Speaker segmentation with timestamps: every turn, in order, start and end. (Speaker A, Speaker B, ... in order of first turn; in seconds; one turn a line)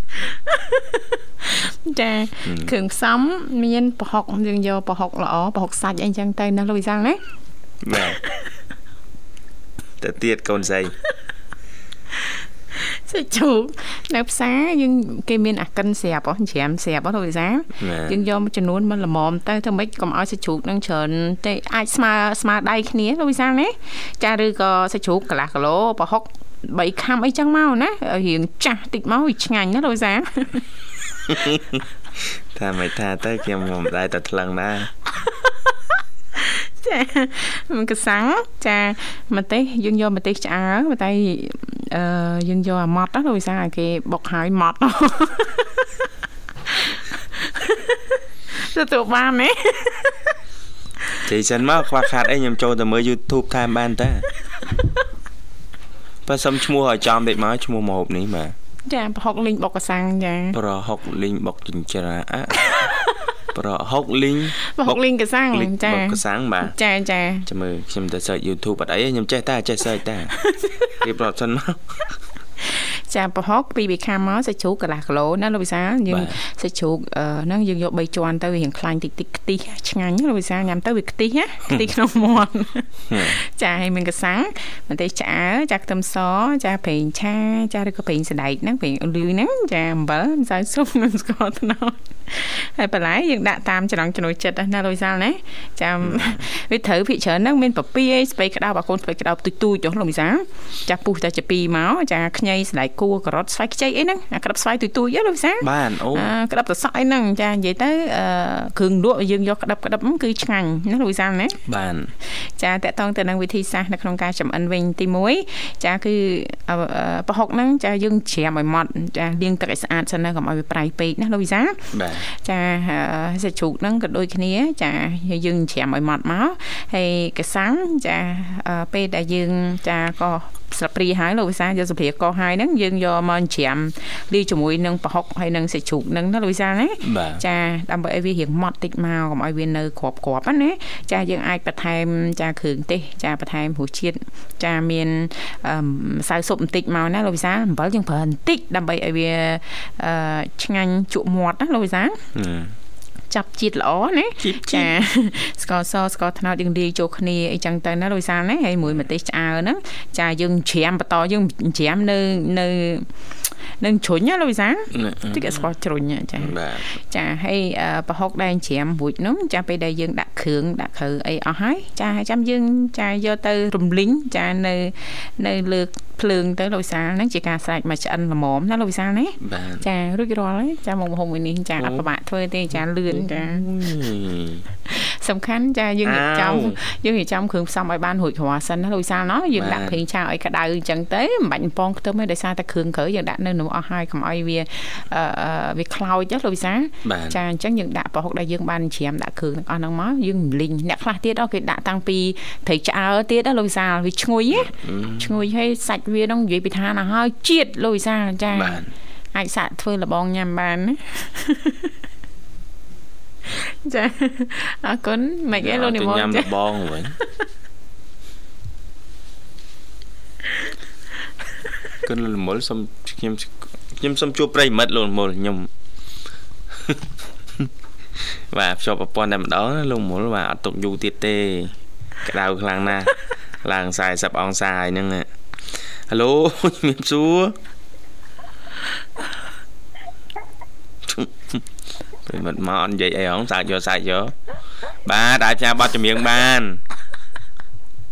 Speaker A: 0.3-7.2
Speaker B: 2.5-2.7
Speaker B: 7.8-8.2
Speaker B: 10.0-10.9
Speaker A: 12.8-30.6
Speaker B: 17.8-18.2
Speaker B: 31.3-34.9
Speaker A: 36.4-45.9
Speaker A: 46.9-50.3
Speaker B: 51.2-54.2
Speaker B: 56.3-58.5
Speaker A: 58.9-60.6
Speaker B: 60.5-62.9
Speaker B: 63.5-65.0
Speaker A: 64.6-67.5
Speaker B: 65.5-66.8
Speaker B: 67.5-70.3
Speaker A: 70.4-70.9
Speaker B: 71.0-72.0
Speaker A: 72.6-111.6
Speaker B: 76.1-76.4
Speaker B: 83.1-83.4
Speaker B: 96.0-96.4
Speaker B: 105.6-106.3
Speaker B: 111.7-112.1
Speaker A: 112.2-152.2
Speaker B: 121.9-122.3
Speaker B: 137.0-137.4
Speaker B: 152.3-152.8
Speaker A: 153.3-163.1
Speaker B: 154.4-154.9
Speaker A: 163.8-183.7
Speaker B: 164.9-165.7
Speaker B: 166.4-166.9
Speaker B: 179.4-179.8
Speaker B: 181.8-182.1
Speaker B: 183.1-184.7
Speaker A: 184.9-208.8
Speaker B: 186.1-186.8
Speaker B: 189.5-190.0
Speaker B: 197.0-197.4
Speaker B: 204.6-205.3
Speaker B: 208.5-208.9
Speaker A: 209.3-211.9
Speaker A: 213.5-216.5
Speaker B: 215.6-217.2
Speaker B: 222.0-225.7
Speaker B: 228.2-231.7
Speaker B: 232.2-237.6
Speaker B: 241.1-241.6
Speaker B: 242.3-244.3
Speaker B: 245.1-246.8